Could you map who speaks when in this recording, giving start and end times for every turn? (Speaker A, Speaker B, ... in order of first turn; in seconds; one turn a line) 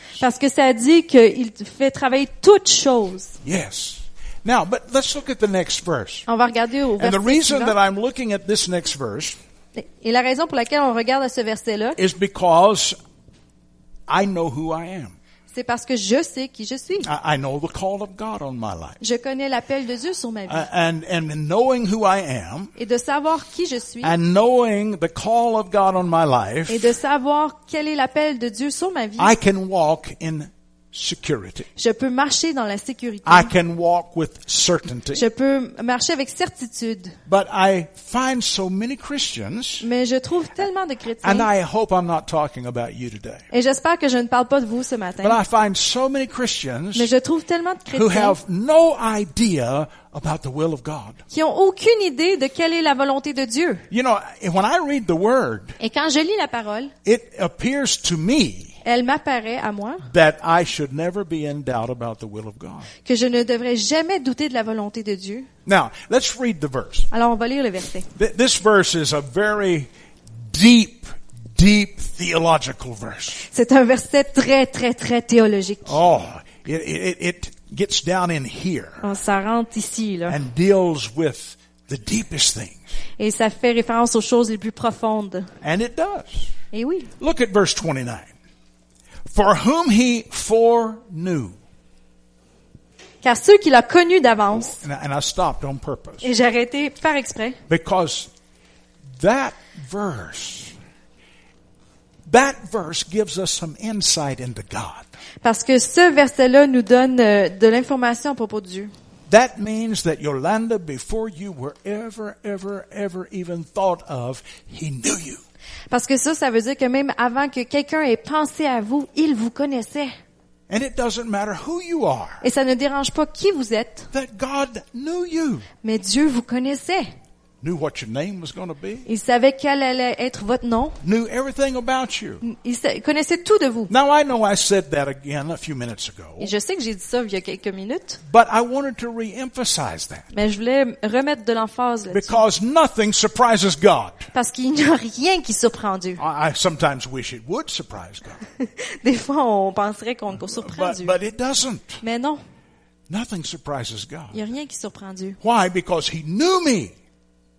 Speaker A: 0.2-3.4
Speaker B: 3.4-6.3
Speaker A: 6.3-7.8
Speaker B: 7.0-9.4
Speaker A: 9.8-12.0
Speaker B: 12.0-13.0
Speaker B: 14.1-15.2
Speaker A: 15.5-17.1
Speaker B: 17.0-19.0
Speaker A: 19.0-20.7
Speaker B: 20.5-22.7
Speaker A: 22.8-24.1
Speaker B: 24.0-26.9
Speaker A: 26.7-29.3
Speaker B: 29.2-31.7
Speaker A: 31.8-33.5
Speaker B: 33.2-35.2
Speaker A: 35.1-37.1
Speaker B: 37.3-39.9
Speaker A: 39.8-41.5
Speaker B: 41.2-43.4
Speaker A: 43.5-45.4
Speaker B: 45.2-47.1
Speaker A: 47.0-48.4
Speaker B: 47.9-51.2
Speaker A: 51.3-53.9
Speaker B: 53.9-55.8
Speaker A: 55.8-56.9
Speaker B: 57.0-58.8
Speaker A: 58.9-60.1
Speaker B: 60.1-62.9
Speaker A: 63.0-65.5
Speaker B: 65.7-67.1
Speaker A: 67.1-68.1
Speaker B: 68.2-69.9
Speaker B: 70.5-73.5
Speaker A: 73.5-76.0
Speaker B: 75.8-79.1
Speaker A: 79.0-80.4
Speaker B: 80.3-82.9
Speaker A: 83.2-85.5
Speaker B: 85.6-86.5
Speaker A: 86.7-87.1
Speaker B: 87.2-88.3
Speaker B: 89.3-91.6
Speaker A: 93.2-94.8
Speaker B: 94.5-96.3
Speaker A: 96.2-97.6
Speaker B: 97.7-98.3
Speaker B: 99.2-100.7
Speaker B: 102.3-105.0
Speaker A: 105.4-108.9
Speaker B: 109.3-115.4
Speaker A: 115.9-120.2
Speaker B: 120.7-122.4
Speaker A: 122.4-124.1
Speaker B: 124.1-125.7
Speaker A: 125.8-127.1
Speaker B: 127.6-129.1
Speaker A: 129.1-131.0
Speaker B: 131.0-132.4
Speaker A: 132.4-133.9
Speaker B: 133.9-136.5
Speaker A: 136.4-138.2
Speaker B: 138.3-140.3
Speaker A: 140.3-142.4
Speaker B: 142.1-144.3
Speaker A: 144.3-146.2
Speaker B: 146.2-148.4
Speaker A: 148.6-151.1
Speaker B: 150.3-152.0
Speaker A: 152.0-152.4
Speaker B: 153.1-154.4
Speaker A: 154.3-155.4
Speaker B: 155.4-156.9